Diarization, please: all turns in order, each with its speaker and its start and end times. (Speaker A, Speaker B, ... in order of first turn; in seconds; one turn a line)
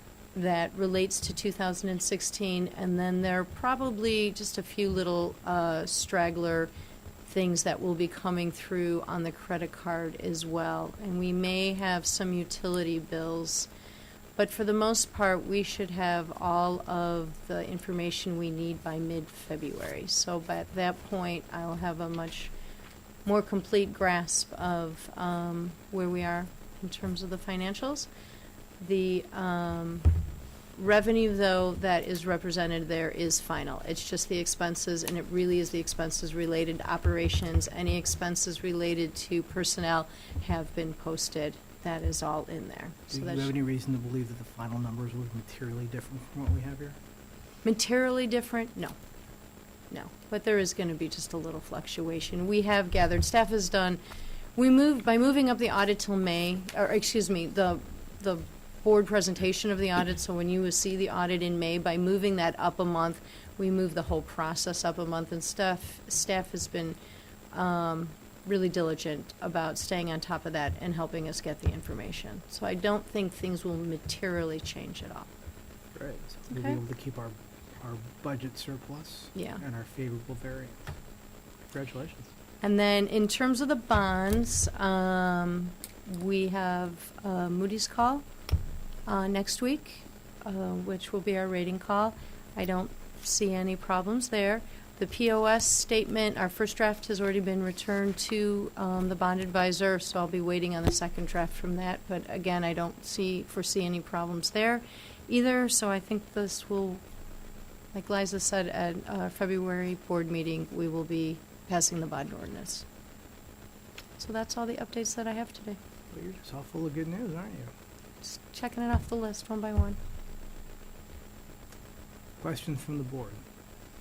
Speaker A: 0.3-6.7
Speaker A: 7.3-13.7
Speaker A: 14.4-22.5
Speaker A: 23.2-28.1
Speaker A: 28.8-30.1
Speaker A: 30.8-43.5
Speaker B: 43.1-47.0
Speaker A: 47.6-49.0
Speaker A: 49.9-54.0
Speaker A: 54.6-67.0
Speaker A: 67.5-75.3
Speaker B: 76.0-80.9
Speaker A: 76.5-76.8
Speaker A: 79.3-79.6
Speaker B: 81.7-82.3
Speaker A: 82.6-88.2
Speaker A: 89.1-107.0
Speaker A: 107.9-112.8
Speaker A: 114.2-115.8
Speaker B: 116.1-117.7
Speaker A: 118.2-120.0
Speaker B: 122.4-123.4